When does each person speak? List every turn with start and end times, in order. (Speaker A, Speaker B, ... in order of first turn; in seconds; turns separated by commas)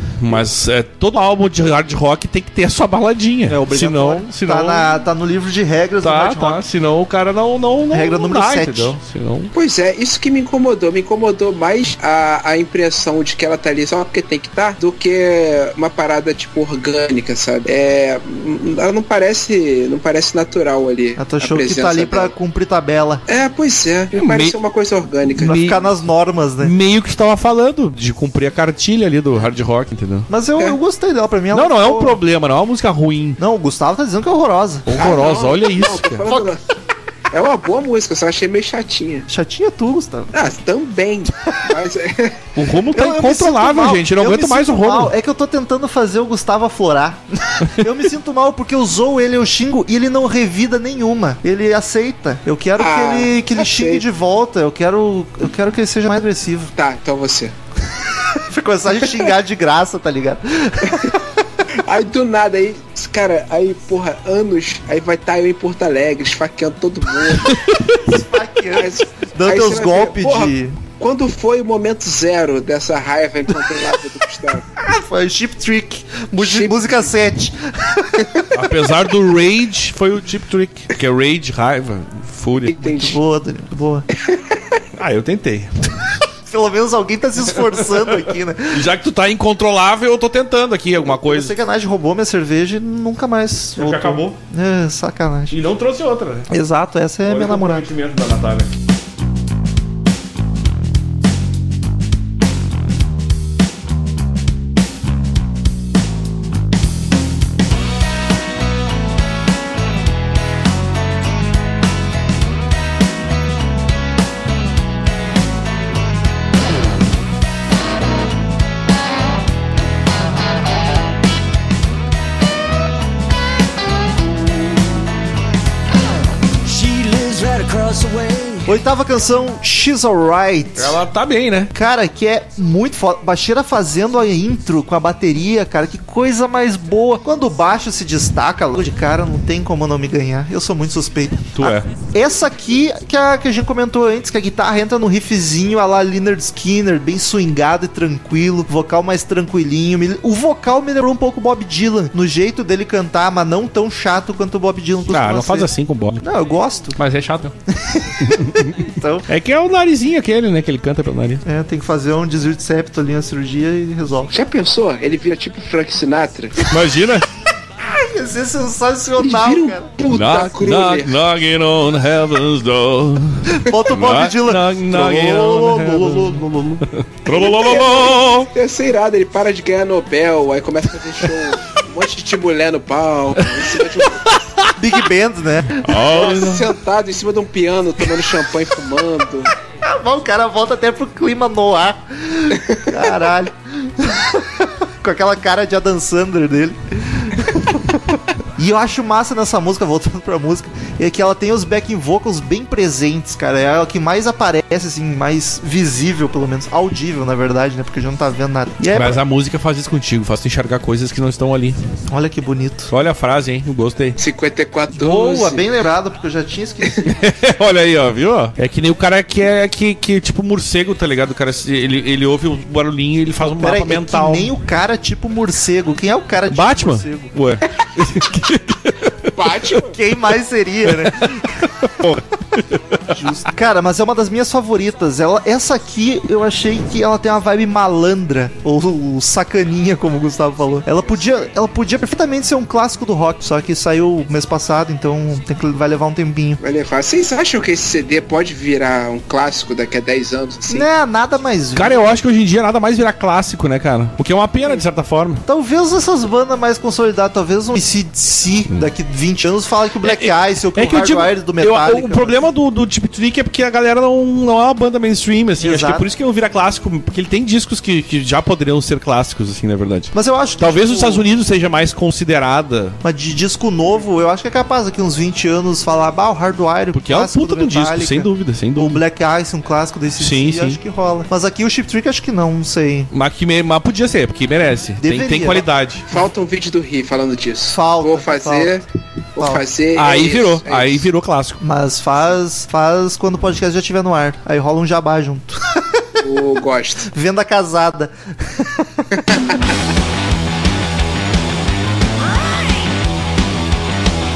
Speaker A: 0.1-4.9, Speaker B: 3.5-6.6, Speaker A: 6.0-9.5, Speaker B: 7.9-8.9, Speaker C: 9.5-22.3, Speaker B: 21.2-23.2, Speaker C: 23.3-25.6, Speaker A: 24.1-24.5, Speaker B: 25.4-26.7, Speaker A: 25.4-25.8, Speaker A: 26.6-30.3, Speaker B: 30.3-32.2, Speaker A: 31.5-33.4, Speaker B: 33.4-34.9, Speaker A: 34.9-36.3, Speaker C: 34.9-36.6, Speaker C: 37.3-39.3, Speaker B: 39.3-40.3, Speaker C: 40.3-42.4, Speaker A: 42.5-45.1, Speaker B: 42.9-56.7, Speaker C: 52.8-54.0, Speaker C: 56.8-57.5, Speaker B: 58.3-61.3, Speaker C: 61.7-67.6, Speaker A: 67.5-68.0, Speaker B: 67.9-70.8, Speaker C: 68.7-74.7, Speaker B: 74.8-78.5, Speaker C: 76.4-77.1, Speaker A: 78.5-82.9, Speaker C: 82.7-83.2, Speaker B: 83.0-84.0, Speaker C: 84.2-84.6, Speaker A: 85.0-85.8, Speaker B: 86.5-88.9, Speaker A: 87.7-88.0, Speaker A: 88.7-91.5, Speaker B: 91.0-95.6, Speaker A: 93.8-94.4, Speaker A: 95.5-96.5, Speaker B: 96.5-97.9, Speaker A: 97.2-98.7, Speaker D: 126.6-128.8, Speaker B: 128.6-131.0, Speaker A: 130.8-131.7, Speaker B: 131.7-157.0, Speaker A: 141.5-141.9, Speaker A: 155.1-156.2, Speaker A: 156.9-157.5, Speaker B: 157.7-159.3, Speaker A: 158.2-161.4, Speaker B: 161.4-164.3, Speaker C: 164.3-166.7, Speaker A: 166.7-167.3, Speaker B: 167.8-169.9, Speaker C: 169.2-171.2, Speaker A: 170.1-178.5, Speaker B: 173.5-176.8, Speaker C: 177.3-184.4, Speaker A: 183.4-184.7, Speaker B: 184.8-186.1, Speaker A: 185.8-186.7, Speaker C: 186.1-189.5, Speaker B: 189.8-209.2, Speaker A: 208.9-211.8, Speaker B: 212.1-212.9, Speaker A: 212.9-214.2, Speaker C: 214.2-215.7, Speaker B: 214.9-217.1, Speaker A: 217.0-224.5, Speaker B: 223.6-227.3, Speaker A: 226.5-229.7, Speaker C: 229.3-230.0, Speaker B: 229.9-231.4, Speaker A: 230.8-233.1, Speaker B: 233.1-246.6, Speaker C: 246.6-250.9, Speaker B: 250.7-252.1, Speaker A: 251.7-255.4, Speaker B: 255.4-262.4, Speaker A: 260.0-273.0, Speaker B: 265.6-266.1, Speaker B: 270.1-271.3, Speaker B: 273.0-283.1, Speaker A: 276.9-279.0, Speaker A: 280.2-280.8, Speaker A: 283.1-286.1, Speaker B: 285.0-285.7, Speaker C: 286.1-291.1, Speaker B: 287.7-288.7, Speaker B: 289.4-289.6, Speaker A: 289.9-291.6, Speaker B: 291.6-296.2, Speaker C: 296.2-297.1, Speaker B: 297.1-299.4, Speaker C: 299.3-299.6, Speaker D: 302.1-303.1